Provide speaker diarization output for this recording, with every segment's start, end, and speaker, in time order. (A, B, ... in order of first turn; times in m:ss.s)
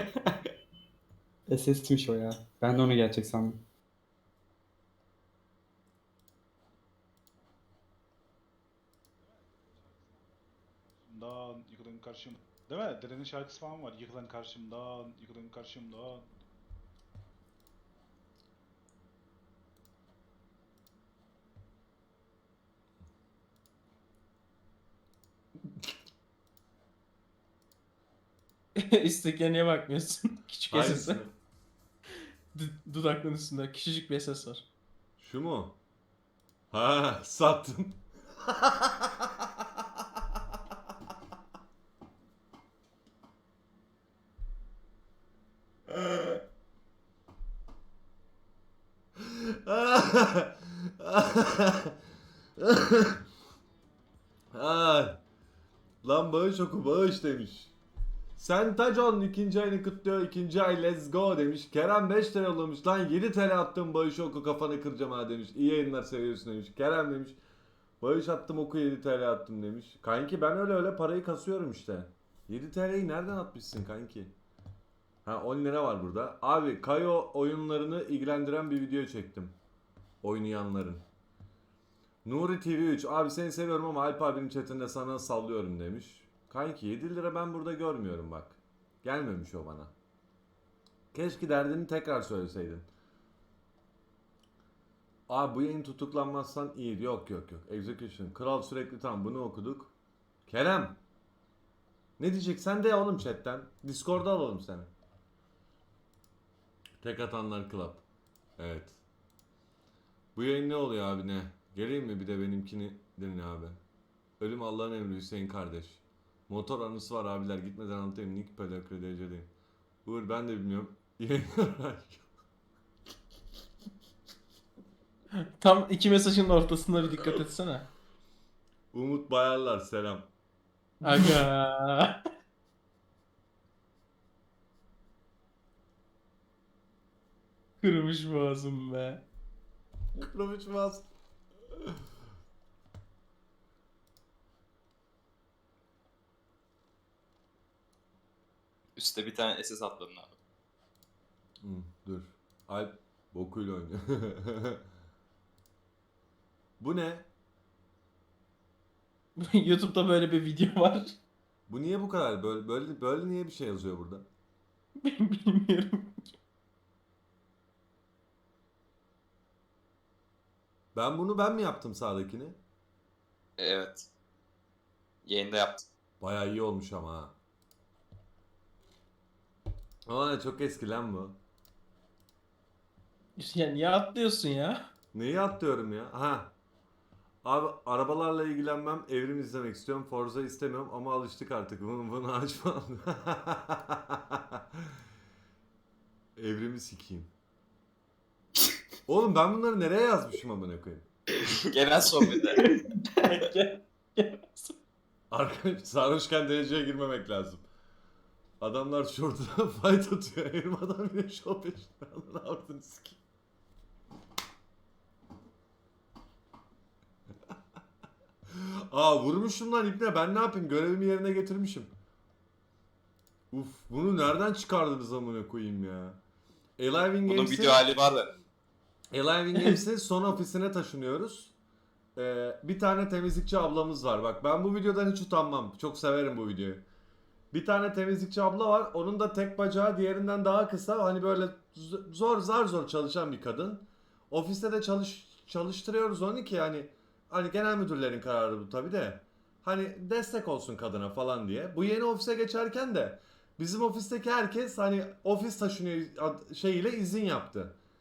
0:01.5-0:03.6 A
0:11.0-0:16.3 B
0:28.8-0:31.2 C
0:30.7-0:31.3 D
0:32.5-0:34.6 C
0:35.2-0:35.7 D
0:36.7-0:39.5 D
0:45.9-0:46.4 D
0:49.2-0:52.0 D
0:52.6-0:53.2 D
0:54.5-0:55.2 D
0:56.0-0:57.7 D
0:58.4-1:07.4 D
1:08.0-1:14.3 D
1:15.2-1:19.5 D
1:20.2-1:21.0 D
1:22.2-1:29.9 D
1:31.1-1:32.8 D
1:35.3-1:39.9 D
1:40.5-1:41.0 D
1:42.2-1:44.9 D
1:47.0-1:48.0 D
1:48.6-1:49.0 D
1:50.4-1:53.8 D
1:54.4-1:59.5 D
2:00.0-2:02.3 D
2:05.6-2:07.9 C
2:08.9-2:10.3 D
2:11.0-2:12.2 C
2:17.8-2:19.2 C
2:20.2-2:21.1 D
2:29.0-2:30.4 E
2:31.6-2:34.8 D
2:36.8-2:37.3 D
2:39.4-2:41.2 C
2:41.7-2:44.2 D
2:45.0-2:46.3 C
2:50.9-2:52.6 D
2:53.6-2:54.1 E
2:55.2-2:55.8 E
2:56.2-2:57.3 D
3:00.1-3:01.4 D
3:03.4-3:04.8 C
3:05.1-3:06.5 D
3:07.4-3:14.8 D
3:16.4-3:17.3 D
3:19.1-3:21.0 D
3:21.5-3:22.7 E
3:23.2-3:24.7 C
3:25.3-3:27.6 D
3:28.6-3:33.2 D
3:38.5-3:41.9 D
3:43.5-3:46.2 D
3:46.8-3:47.9 D
3:47.2-3:48.3 E
3:49.1-3:51.5 D
3:52.2-3:56.8 D
3:57.5-4:17.7 D